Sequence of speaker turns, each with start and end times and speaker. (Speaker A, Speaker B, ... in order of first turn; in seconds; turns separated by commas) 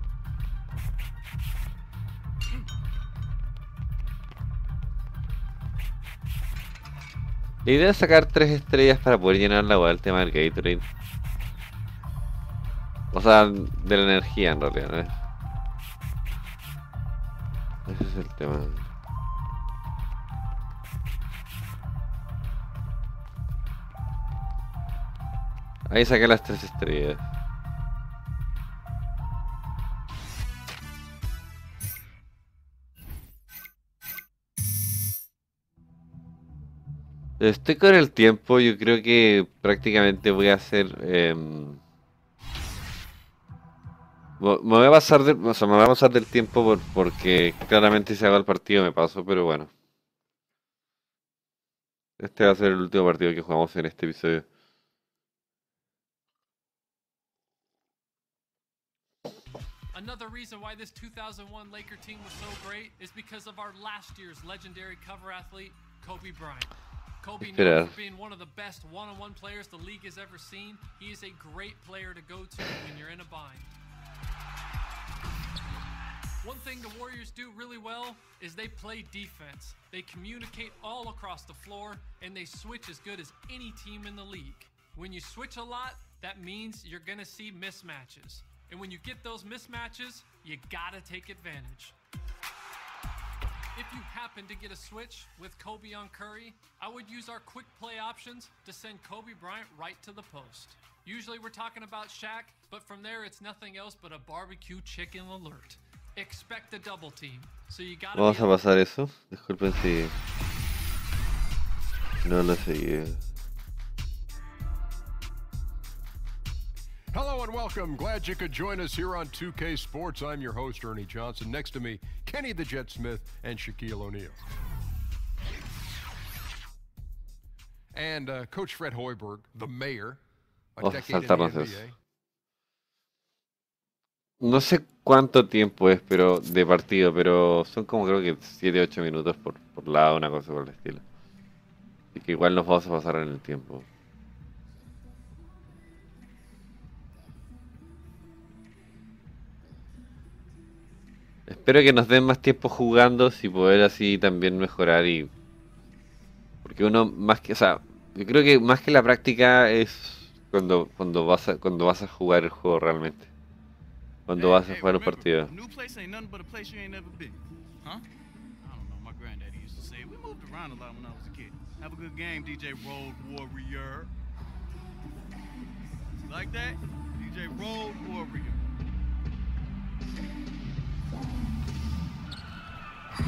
Speaker A: 7.6-10.8, Speaker A: 13.1-15.1, Speaker A: 17.9-18.8, Speaker A: 25.9-27.2, Speaker A: 37.4-41.8, Speaker A: 44.4-49.7, Speaker A: 52.2-54.5, Speaker B: 59.9-73.7, Speaker A: 67.4-68.0, Speaker B: 76.4-91.9, Speaker B: 93.7-108.5, Speaker A: 108.1-110.1, Speaker A: 112.2-113.2, Speaker C: 117.1-124.4, Speaker C: 127.9-130.2, Speaker C: 130.7-131.9, Speaker A: 130.8-131.9, Speaker A: 134.4-141.0, Speaker A: 142.1-143.9, Speaker A: 151.5-155.3, Speaker A: 156.6-163.3, Speaker A: 164.3-165.5, Speaker D: 164.3-168.0, Speaker D: 168.6-174.1, Speaker D: 176.2-178.7